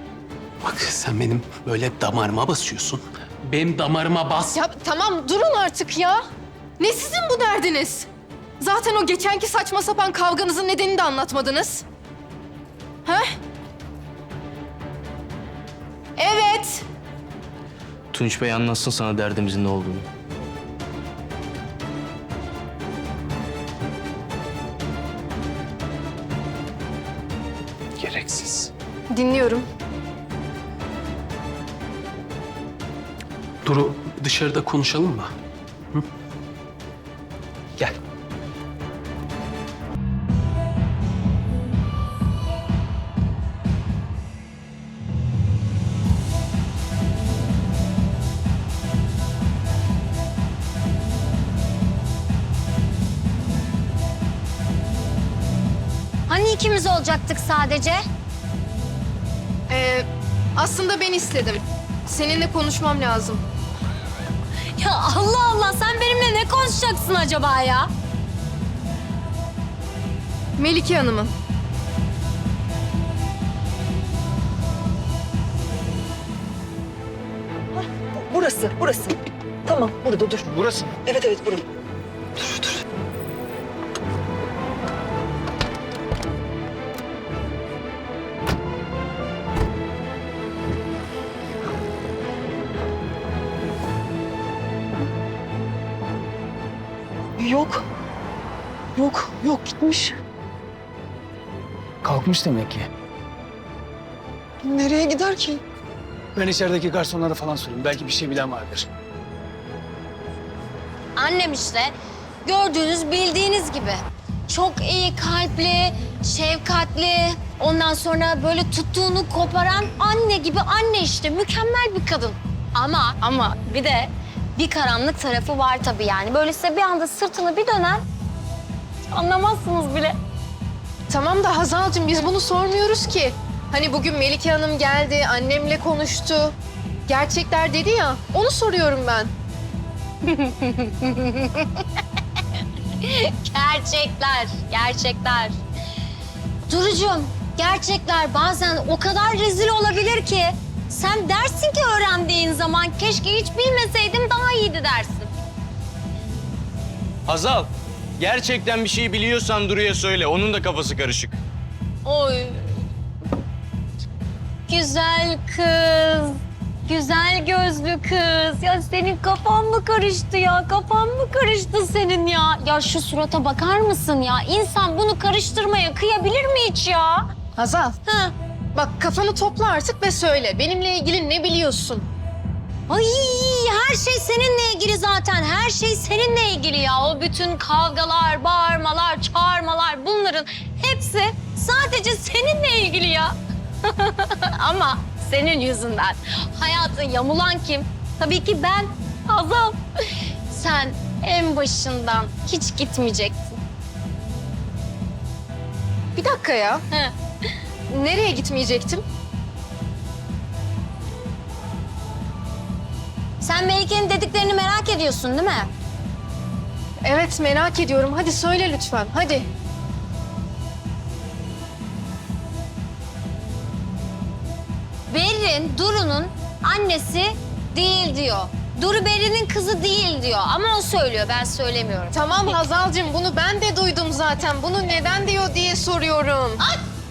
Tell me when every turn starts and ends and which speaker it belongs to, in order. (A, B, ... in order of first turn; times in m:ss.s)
0:00.6-0:04.6 A
0:04.5-0:06.2 B
0:06.8-0:08.1 B
0:08.6-0:11.8 B
0:13.0-0:13.4 B
0:16.2-0:16.9 B
0:18.1-0:20.1 C
0:28.0-0:28.7 A
0:29.1-0:29.7 B
0:33.6-0:35.3 A
0:56.3-0:58.0 D
0:59.7-1:03.4 B
1:04.8-1:07.9 D
1:10.6-1:11.4 B
1:17.7-1:20.5 E
1:20.5-1:21.0 F
1:21.0-1:21.6 E
1:22.4-1:22.8 E
1:37.4-1:37.8 E
1:39.0-1:40.2 E
1:42.0-1:42.9 F
1:44.6-1:45.6 E
1:46.4-1:48.9 F
1:51.2-1:51.9 D
1:52.4-2:08.0 D
2:03.2-2:03.6 B
2:09.1-2:10.2 D
2:11.1-2:16.6 B
2:17.1-2:19.3 B
2:20.2-2:21.8 D
2:23.0-2:25.6 D
2:26.7-2:35.3 D
2:37.3-2:41.4 C
2:42.0-2:42.8 D
2:44.7-2:57.3 D
2:57.6-2:58.0 B
2:58.1-2:58.3 D
2:58.7-3:02.1 B
3:02.9-3:23.6 D
3:26.2-3:26.8 B
3:27.9-3:29.0 B
3:33.4-3:35.7 D
3:37.0-3:39.5 B
3:45.1-3:52.2 D
3:52.1-3:56.6 B